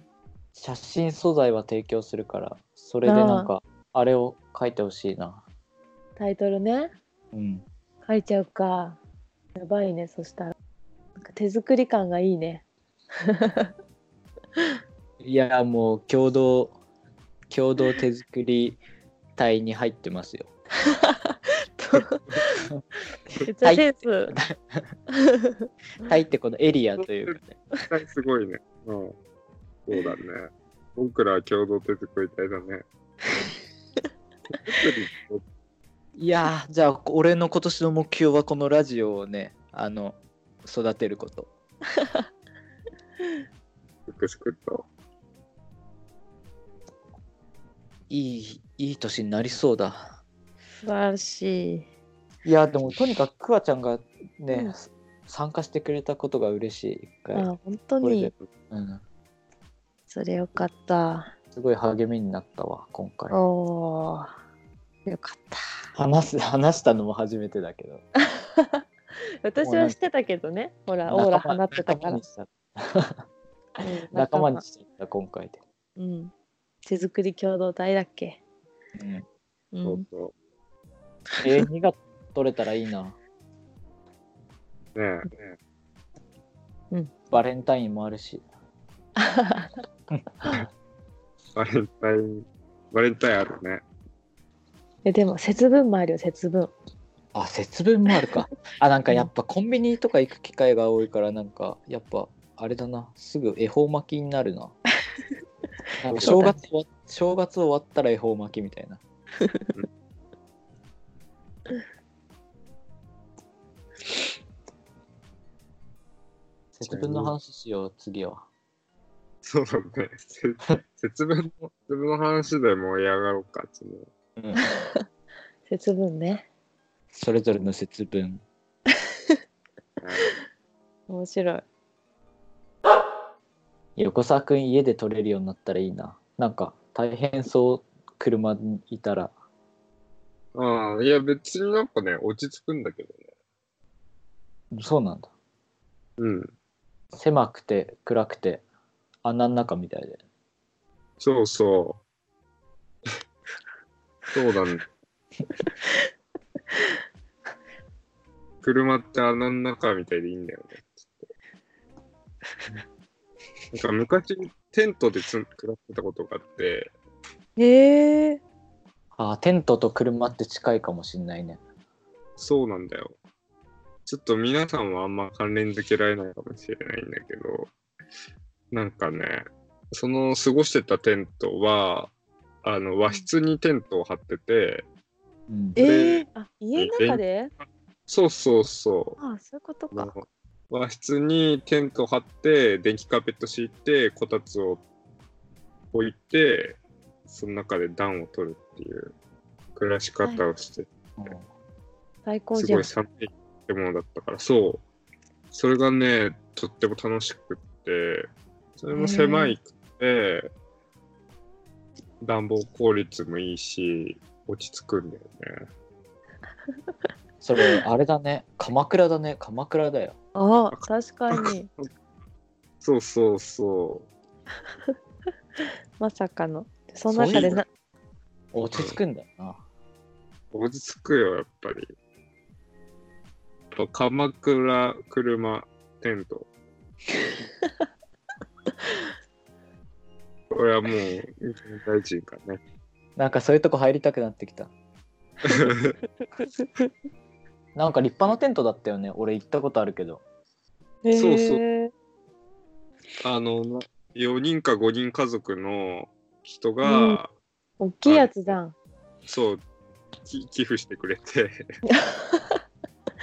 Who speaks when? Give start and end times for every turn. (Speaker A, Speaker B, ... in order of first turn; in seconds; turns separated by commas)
Speaker A: 0.6-5.4, Speaker B: 3.0-3.5, Speaker B: 6.2-6.9, Speaker A: 7.3-7.7, Speaker B: 8.1-9.0, Speaker B: 9.6-10.5, Speaker B: 11.2-12.7, Speaker B: 13.2-13.7, Speaker A: 15.2-16.8, Speaker A: 17.5-18.8, Speaker A: 19.4-20.5, Speaker B: 20.9-22.7, Speaker B: 23.4-24.3, Speaker A: 23.6-24.9, Speaker B: 25.1-25.7, Speaker A: 26.0-27.6, Speaker C: 27.3-29.1, Speaker C: 29.9-32.8, Speaker C: 34.6-35.4, Speaker A: 36.2-41.5, Speaker C: 44.1-44.9, Speaker A: 48.1-50.1, Speaker B: 50.8-51.9, Speaker A: 52.5-57.5, Speaker B: 57.3-58.3, Speaker A: 58.0-59.0, Speaker B: 60.1-61.3, Speaker A: 61.5-63.4, Speaker B: 63.3-64.3, Speaker B: 65.1-65.7, Speaker A: 66.0-68.0, Speaker B: 68.3-68.8, Speaker B: 69.4-72.2, Speaker A: 69.6-70.0, Speaker A: 71.1-73.2, Speaker B: 73.8-74.6, Speaker A: 74.1-75.6, Speaker B: 76.0-76.3, Speaker B: 76.9-78.4, Speaker A: 79.0-79.3, Speaker B: 79.7-80.0, Speaker C: 79.8-80.3, Speaker A: 81.4-83.2, Speaker C: 85.0-85.5, Speaker A: 87.3-88.4, Speaker B: 89.2-89.7, Speaker A: 90.1-90.7, Speaker C: 91.6-93.8, Speaker B: 95.0-96.7, Speaker A: 97.3-104.7, Speaker A: 106.0-109.0, Speaker B: 106.2-106.6, Speaker C: 106.2-106.5, Speaker B: 109.4-109.7, Speaker A: 116.7-118.5, Speaker C: 116.8-117.3, Speaker C: 119.4-124.1, Speaker A: 124.4-124.7, Speaker B: 124.6-125.0, Speaker B: 125.7-126.5, Speaker A: 127.1-128.4, Speaker C: 130.0-130.3, Speaker B: 131.1-131.6, Speaker A: 134.0-139.3, Speaker C: 140.6-143.3, Speaker A: 144.7-145.3, Speaker C: 146.2-146.5, Speaker A: 147.1-148.6, Speaker A: 149.2-150.2, Speaker C: 151.2-152.0, Speaker C: 154.3-154.8, Speaker C: 158.6-161.3, Speaker C: 163.7-166.9, Speaker B: 167.6-168.4, Speaker A: 169.2-171.6, Speaker C: 172.4-173.2, Speaker C: 174.1-177.7, Speaker C: 178.7-182.1, Speaker C: 182.6-184.8, Speaker A: 185.5-185.8, Speaker B: 185.8-187.5, Speaker C: 185.8-186.2, Speaker C: 186.8-187.2, Speaker C: 188.1-189.2, Speaker B: 189.2-190.2, Speaker C: 189.9-194.8, Speaker C: 195.9-199.1, Speaker C: 199.8-200.9, Speaker A: 201.2-201.5, Speaker B: 202.2-202.9, Speaker C: 202.6-204.8, Speaker C: 205.5-210.5, Speaker B: 208.9-209.6, Speaker C: 212.2-215.7, Speaker A: 217.4-220.2, Speaker B: 220.4-221.7, Speaker C: 220.7-221.9, Speaker C: 222.8-224.1, Speaker B: 226.0-227.7, Speaker A: 227.1-227.6, Speaker C: 227.3-227.6, Speaker A: 228.5-229.6, Speaker C: 230.5-231.9, Speaker C: 233.7-236.5, Speaker C: 240.5-242.6, Speaker A: 243.2-244.7, Speaker C: 245.4-245.9, Speaker B: 246.6-246.9, Speaker A: 247.8-250.2, Speaker B: 251.0-251.9, Speaker C: 251.1-251.6, Speaker C: 253.2-257.3, Speaker B: 256.8-257.2, Speaker B: 257.8-258.8, Speaker C: 258.1-258.6, Speaker C: 259.3-259.6, Speaker C: 260.2-261.6, Speaker B: 261.9-262.6